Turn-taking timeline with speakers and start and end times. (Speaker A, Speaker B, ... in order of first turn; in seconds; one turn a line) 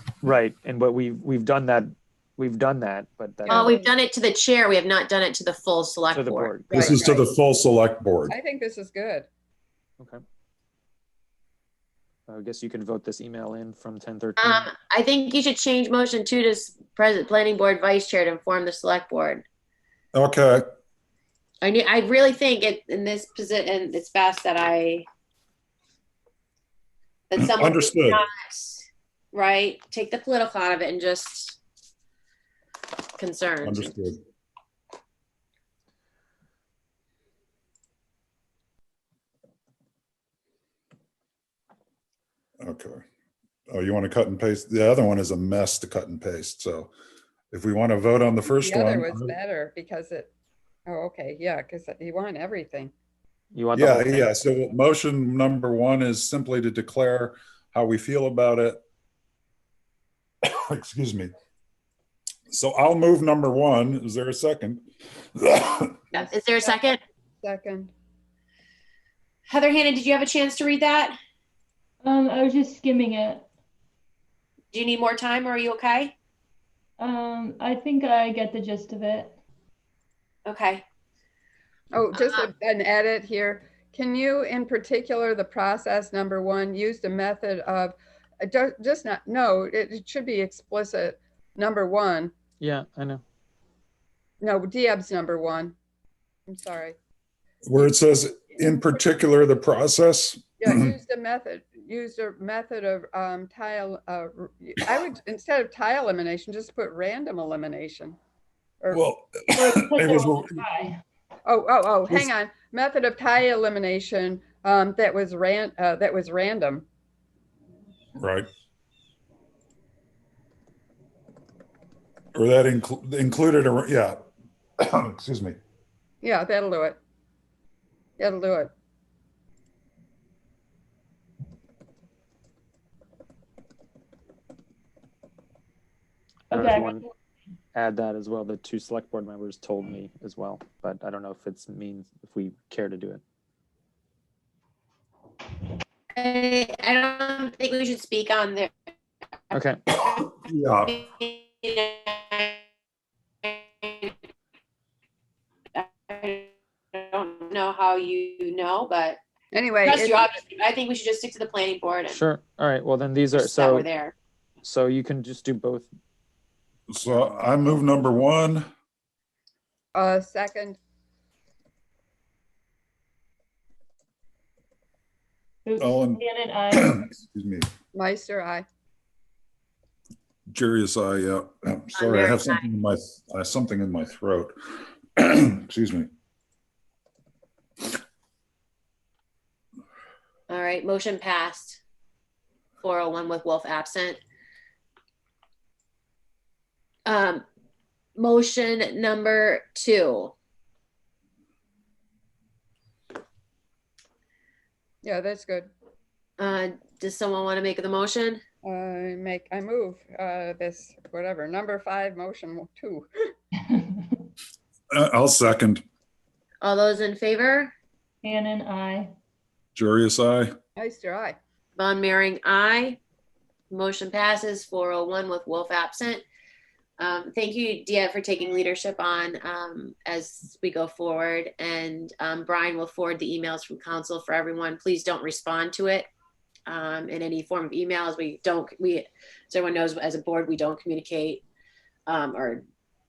Speaker A: 0.2-3.7
Speaker B: 3.5-3.9
Speaker C: 3.5-7.2
Speaker A: 6.1-6.9
Speaker B: 6.7-7.1
Speaker D: 6.7-8.3
Speaker B: 8.3-9.3
Speaker A: 12.3-14.7
Speaker C: 14.4-19.4
Speaker D: 20.1-20.6
Speaker C: 21.6-25.1
Speaker C: 27.3-31.6
Speaker D: 27.4-28.2
Speaker C: 33.2-33.9
Speaker D: 33.6-34.2
Speaker D: 42.6-43.0
Speaker D: 43.7-46.9
Speaker D: 47.5-49.3
Speaker B: 48.5-50.3
Speaker B: 50.9-52.9
Speaker A: 53.5-54.3
Speaker D: 53.7-58.8
Speaker D: 60.5-61.3
Speaker D: 62.5-66.0
Speaker C: 66.1-67.0
Speaker B: 66.1-66.8
Speaker B: 67.4-67.9
Speaker C: 69.5-71.2
Speaker E: 72.0-73.4
Speaker C: 74.7-76.1
Speaker E: 77.0-79.3
Speaker C: 80.5-80.8
Speaker B: 81.9-92.3
Speaker C: 82.1-82.5
Speaker A: 92.6-93.2
Speaker B: 94.4-95.7
Speaker B: 96.5-97.0
Speaker D: 97.7-100.9
Speaker B: 98.6-98.9
Speaker B: 100.6-108.2
Speaker D: 108.9-110.6
Speaker E: 109.5-110.9
Speaker B: 111.5-116.8
Speaker D: 118.2-118.5
Speaker D: 122.3-124.2
Speaker D: 124.8-125.6
Speaker B: 126.2-127.0
Speaker B: 128.2-128.7
Speaker A: 136.5-137.0
Speaker E: 136.5-137.0
Speaker A: 137.7-143.2
Speaker C: 146.2-148.7
Speaker A: 149.5-149.8
Speaker C: 150.0-150.3
Speaker D: 150.4-151.0
Speaker C: 150.8-152.6
Speaker C: 153.4-154.1
Speaker C: 155.7-159.2
Speaker B: 159.5-160.3
Speaker C: 159.8-162.2
Speaker A: 162.1-163.9
Speaker C: 163.3-164.1
Speaker A: 164.6-165.9
Speaker D: 166.9-168.7
Speaker B: 169.9-170.8
Speaker E: 175.7-177.0
Speaker D: 175.8-177.7
Speaker B: 177.9-178.7
Speaker D: 180.5-184.5
Speaker C: 181.9-182.6
Speaker D: 185.2-186.1
Speaker C: 190.5-191.8
Speaker C: 192.8-194.2
Speaker C: 197.1-197.4
Speaker C: 198.2-200.3
Speaker B: 205.0-205.7
Speaker C: 206.4-208.4
Speaker B: 208.6-213.3
Speaker D: 214.9-215.8
Speaker C: 216.6-217.7
Speaker E: 218.2-219.1
Speaker D: 219.7-220.5
Speaker B: 220.8-221.3
Speaker C: 221.8-223.0
Speaker C: 223.7-226.2
Speaker C: 227.0-236.1
Speaker C: 236.7-241.4
Speaker C: 242.1-242.6